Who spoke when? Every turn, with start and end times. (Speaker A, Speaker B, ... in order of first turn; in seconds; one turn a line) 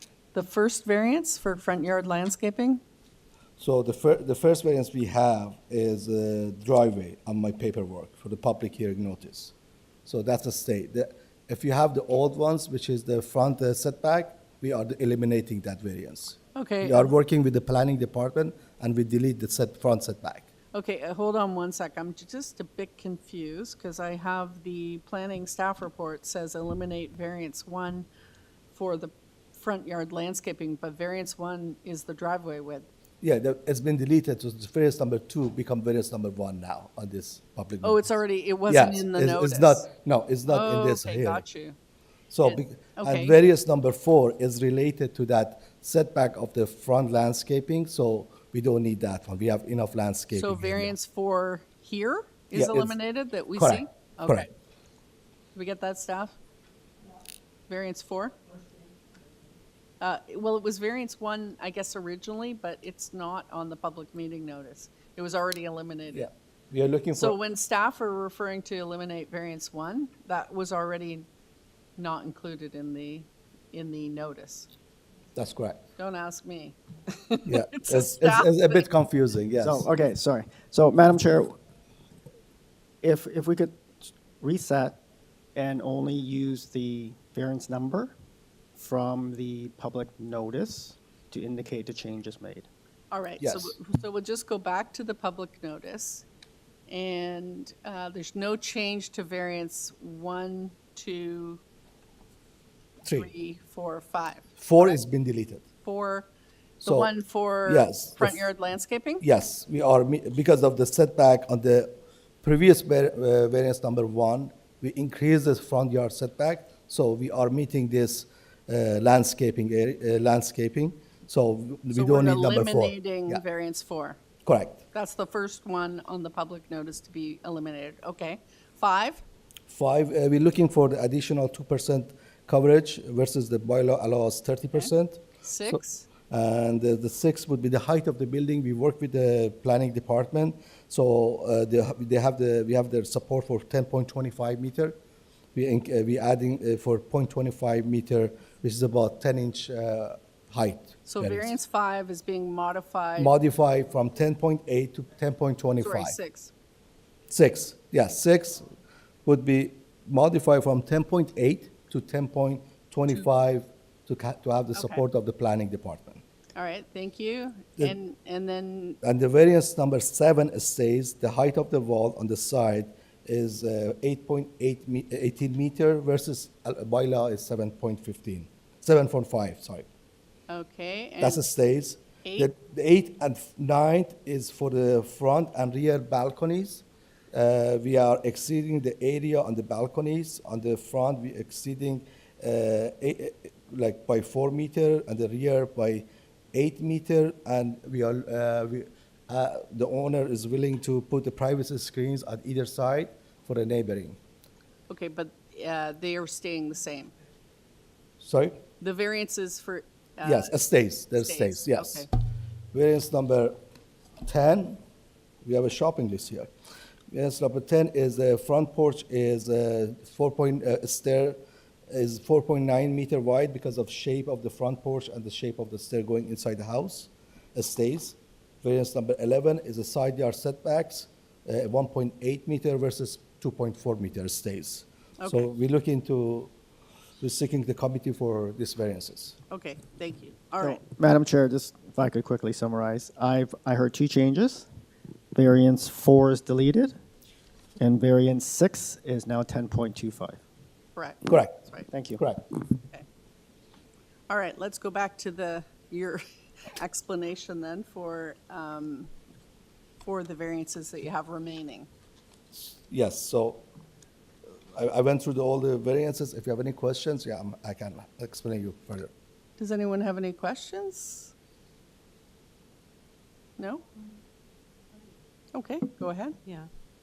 Speaker A: 0.3-2.8
Speaker B: 3.6-9.5
Speaker B: 10.1-20.5
Speaker A: 16.6-17.1
Speaker A: 20.7-28.1
Speaker A: 28.7-32.9
Speaker B: 33.2-38.0
Speaker A: 37.8-39.9
Speaker B: 38.7-41.4
Speaker A: 40.5-41.8
Speaker B: 42.3-51.0
Speaker A: 42.4-43.3
Speaker A: 50.3-54.5
Speaker B: 52.5-53.0
Speaker B: 53.5-54.5
Speaker A: 55.5-56.4
Speaker A: 57.7-58.4
Speaker A: 60.0-66.3
Speaker B: 66.1-67.4
Speaker A: 67.1-71.3
Speaker A: 72.0-74.7
Speaker B: 75.4-75.8
Speaker A: 76.0-78.9
Speaker B: 77.5-79.9
Speaker C: 79.6-81.6
Speaker C: 83.0-85.0
Speaker C: 85.5-88.1
Speaker C: 88.8-92.7
Speaker A: 93.1-96.2
Speaker B: 93.4-93.7
Speaker A: 96.9-101.6
Speaker B: 103.0-103.3
Speaker A: 103.1-105.0
Speaker B: 104.6-105.7
Speaker A: 105.8-106.3
Speaker B: 106.8-107.1
Speaker A: 106.8-109.2
Speaker B: 107.7-108.5
Speaker B: 109.2-111.9
Speaker B: 112.4-123.4
Speaker A: 121.9-124.2
Speaker B: 124.5-124.8
Speaker A: 124.9-129.2
Speaker B: 129.7-145.0
Speaker A: 135.4-136.1
Speaker B: 145.6-151.5
Speaker A: 151.1-153.3
Speaker B: 153.2-156.2
Speaker A: 155.8-156.5
Speaker B: 157.3-158.7
Speaker B: 159.2-166.2
Speaker A: 164.7-165.0
Speaker A: 166.6-169.0
Speaker B: 169.0-179.9
Speaker A: 180.5-181.4
Speaker B: 181.2-204.2
Speaker A: 182.2-182.5
Speaker A: 204.9-207.1
Speaker B: 208.2-208.6
Speaker A: 208.8-212.1
Speaker B: 210.2-212.1
Speaker B: 212.7-213.6
Speaker B: 214.2-214.8
Speaker B: 215.4-216.5
Speaker B: 217.1-236.5
Speaker A: 235.2-235.5
Speaker B: 237.2-239.4
Speaker A: 239.5-240.8
Speaker C: 240.6-244.7
Speaker C: 245.3-246.9
Speaker C: 247.8-250.4
Speaker A: 250.9-251.9
Speaker B: 251.2-251.6
Speaker C: 251.9-252.2
Speaker A: 252.8-253.1
Speaker A: 254.3-256.2
Speaker A: 256.7-259.1
Speaker A: 260.0-261.9
Speaker B: 262.5-263.7
Speaker B: 264.8-269.1
Speaker A: 269.6-271.3
Speaker A: 273.6-273.8
Speaker A: 275.5-276.4